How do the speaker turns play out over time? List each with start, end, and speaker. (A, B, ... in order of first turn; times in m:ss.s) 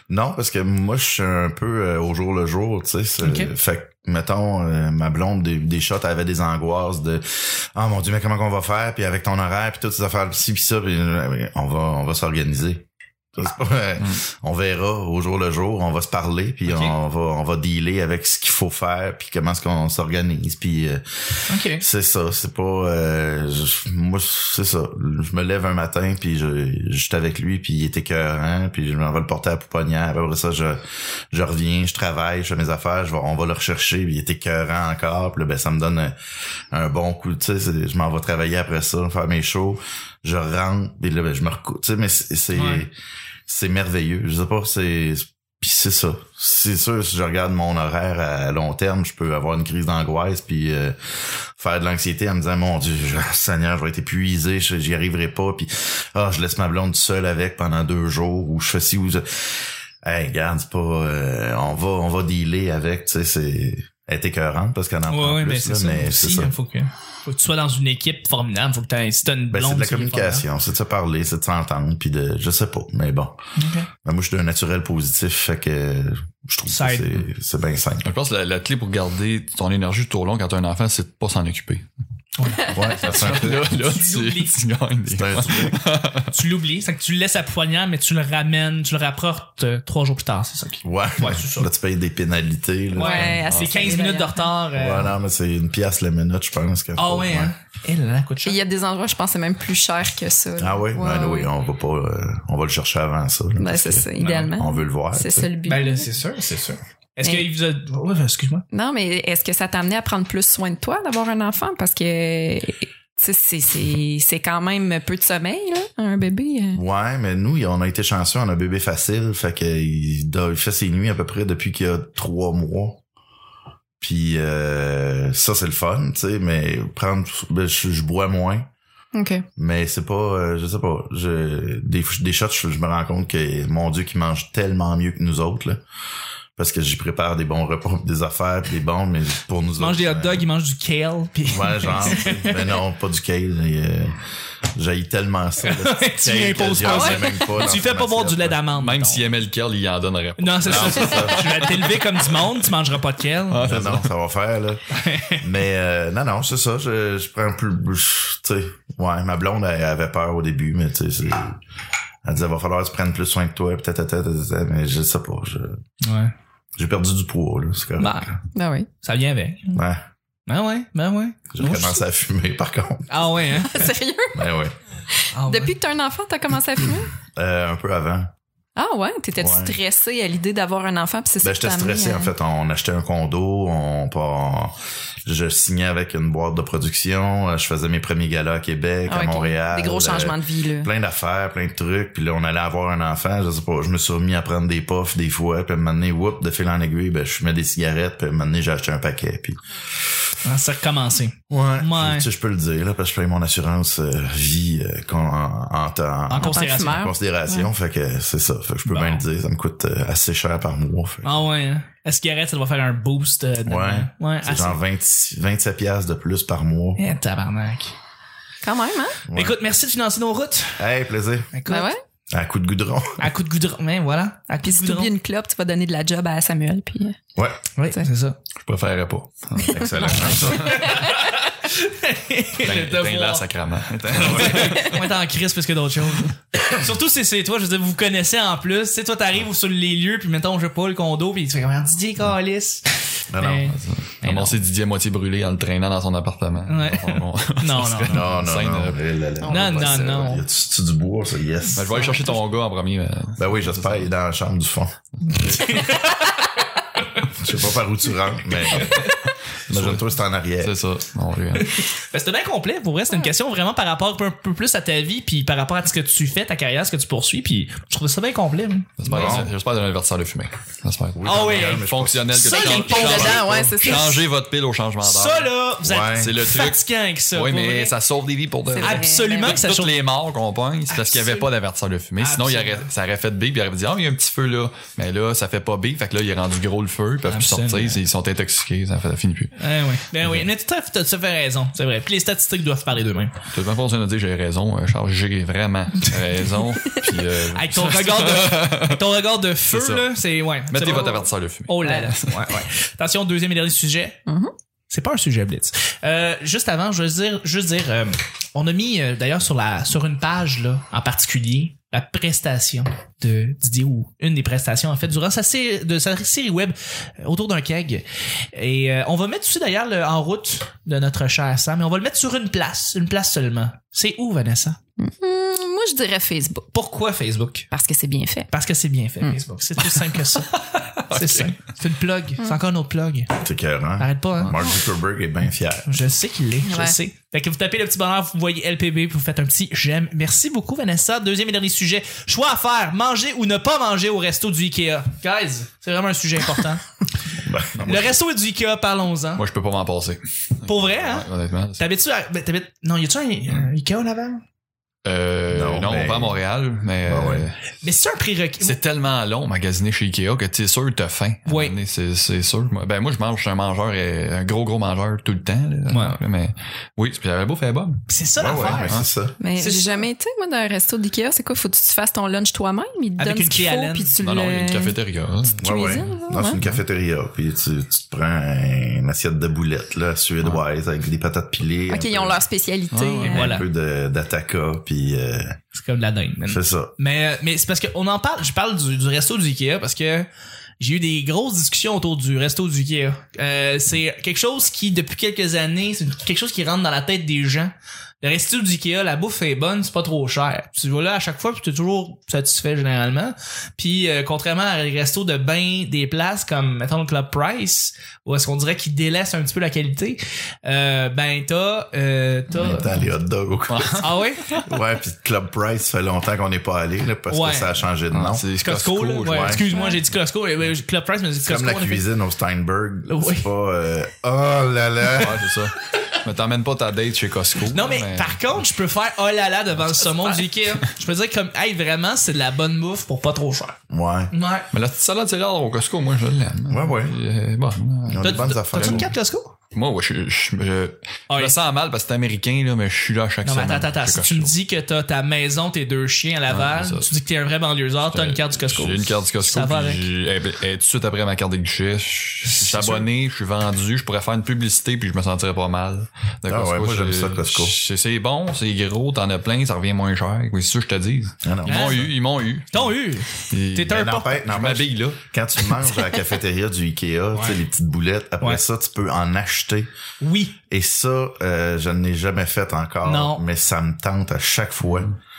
0:00.1-0:21.0 A
0:03.2-0:03.5 B
0:16.7-0:16.9 B
0:21.5-0:21.8 B
0:21.7-0:30.8 A
0:31.3-0:36.2 A
0:36.7-0:42.9 A
0:42.5-0:42.8 B
0:43.5-1:06.5 A
1:05.1-1:10.4 B
1:09.5-1:13.3 A
1:13.6-1:13.9 B
1:14.0-1:18.1 A
1:16.7-1:17.2 B
1:18.0-1:21.8 C
1:22.4-1:22.8 B
1:22.6-1:23.8 A
1:22.9-1:26.3 C
1:23.7-1:24.6 B
1:25.1-1:25.8 A
1:26.3-1:31.7 B
1:30.8-1:33.4 A
1:32.9-1:34.5 D
1:32.9-1:35.1 B
1:33.4-1:33.8 C
1:34.7-1:37.5 A
1:37.0-1:38.6 B
1:38.4-1:41.5 D
1:40.6-1:45.5 A
1:43.6-1:46.1 D
1:44.2-1:44.5 B
1:45.6-1:48.6 B
1:47.2-1:47.4 D
1:48.7-1:56.8 D
1:56.7-2:03.0 A
2:04.0-2:08.6 A
2:09.1-2:09.4 D
2:09.6-2:15.8 A
2:16.6-2:20.4 A
2:19.8-2:22.6 B
2:21.5-2:24.2 A
2:24.7-2:28.6 A
2:25.6-2:29.2 B
2:26.8-2:27.3 D
2:28.7-2:32.3 C
2:30.4-2:33.6 B
2:30.6-2:31.5 A
2:33.5-2:34.1 C
2:33.6-2:41.6 A
2:34.9-2:35.4 B
2:42.2-2:45.8 A
2:46.0-2:46.3 B
2:46.8-2:48.4 A
2:48.0-2:48.3 B
2:48.5-2:48.9 D
2:49.0-2:49.8 B
2:49.7-2:50.0 A
2:50.5-2:52.0 B
2:51.5-2:53.3 A
2:53.1-2:53.9 B
2:53.5-2:54.4 D
2:54.3-2:54.7 A
2:55.1-2:57.1 D
2:55.3-2:55.8 B
2:57.3-2:58.3 A
2:58.8-3:02.3 D
2:59.4-2:59.8 A
3:01.4-3:19.6 A
3:09.1-3:10.9 D
3:20.4-3:22.2 B
3:21.5-3:31.4 A
3:26.3-3:27.0 B
3:26.4-3:27.7 D
3:28.9-3:29.2 B
3:31.2-3:34.8 B
3:33.6-3:37.0 A
3:37.0-3:37.9 B
3:38.6-3:39.2 D
3:39.3-3:39.6 A
3:39.3-3:40.8 B
3:40.8-3:41.5 A
3:41.5-3:41.9 B
3:41.7-3:42.0 D
3:42.3-3:43.3 A
3:43.2-3:45.1 B
3:44.6-3:47.2 D
3:47.4-3:47.6 A
3:47.8-3:48.4 B
3:48.6-3:50.9 C
3:49.7-3:50.7 A
3:49.8-3:50.2 D
3:50.4-3:53.4 B
3:52.6-3:55.0 C
3:54.1-3:54.7 A
3:54.2-4:04.6 B
4:03.3-4:03.7 A
4:03.7-4:09.0 C
4:06.7-4:08.2 B
4:08.1-4:12.4 A
4:09.4-4:10.2 D
4:09.5-4:10.4 B
4:11.8-4:14.1 C
4:13.4-4:14.9 A
4:15.2-4:15.8 C
4:15.4-4:17.2 B
4:17.3-4:19.1 A
4:18.7-4:19.2 B
4:19.7-4:20.1 C
4:19.7-4:20.7 A
4:20.6-4:21.7 C
4:21.6-4:29.5 B
4:29.0-4:49.5 C
4:29.1-4:29.5 A
4:31.1-4:33.4 A
4:31.2-4:33.4 B
4:32.4-4:34.2 D
4:35.0-4:37.9 B
4:35.8-4:36.3 A
4:38.7-4:39.6 D
4:38.8-4:40.0 B
4:40.9-4:41.4 B
4:42.2-4:42.9 B
4:47.3-4:48.0 B
4:49.6-4:53.3 B
4:50.2-4:50.5 C
4:53.5-5:00.1 C
4:57.5-5:04.2 B
5:00.7-5:02.4 C
5:04.3-5:04.5 D
5:04.9-5:24.8 B
5:25.0-5:26.7 D
5:26.7-5:27.7 B
5:27.7-5:28.5 D
5:28.5-5:30.5 B
5:30.3-5:31.5 C
5:31.1-5:33.3 B
5:33.4-5:35.9 A
5:34.0-5:34.6 B
5:35.8-5:46.8 B
5:36.6-5:37.0 D
5:47.3-5:48.1 A
5:47.8-5:49.4 B
5:49.4-5:51.8 C
5:50.6-5:51.3 B
5:51.8-5:54.4 B
5:55.0-5:57.6 C
5:55.5-5:56.4 A
5:57.0-5:57.5 A
5:57.8-5:58.8 B
5:58.6-6:08.0 C
6:01.4-6:01.7 B
6:05.9-6:06.2 B
6:08.1-6:10.1 B
6:08.4-6:09.4 A
6:08.6-6:09.1 C
6:09.4-6:14.9 D
6:13.2-6:14.1 B
6:14.2-6:16.8 C
6:15.6-6:22.4 A
6:15.6-6:16.6 D
6:21.9-6:23.6 D
6:22.9-6:23.5 C
6:23.2-6:23.6 B
6:23.3-6:25.6 A
6:25.7-6:30.3 B
6:26.4-6:26.9 A
6:30.8-6:52.9 B
6:52.5-6:58.4 A
6:53.7-6:54.1 C
6:54.0-6:54.6 B
6:57.3-6:57.7 B
6:58.1-6:59.6 C
6:58.6-7:02.0 B
6:59.2-6:59.6 A
6:59.7-7:00.0 D
7:01.4-7:05.4 A
7:03.1-7:03.4 B
7:05.1-7:08.4 C
7:07.7-7:13.8 B
7:13.9-7:14.3 A
7:14.3-7:14.7 B
7:14.7-7:19.1 C
7:16.7-7:17.1 A
7:18.1-7:19.1 A
7:18.2-7:19.5 B
7:19.7-7:24.5 C
7:21.3-7:21.6 B
7:23.4-7:30.1 B
7:26.5-7:27.1 C
7:28.1-7:45.2 C
7:32.4-7:33.1 B
7:36.5-7:37.7 A
7:41.4-7:42.1 A
7:41.6-7:42.0 B
7:42.7-7:44.4 B
7:43.8-7:49.9 A
7:47.3-7:47.6 B
7:50.2-7:50.6 B
7:50.7-7:55.1 A
7:53.0-7:53.4 B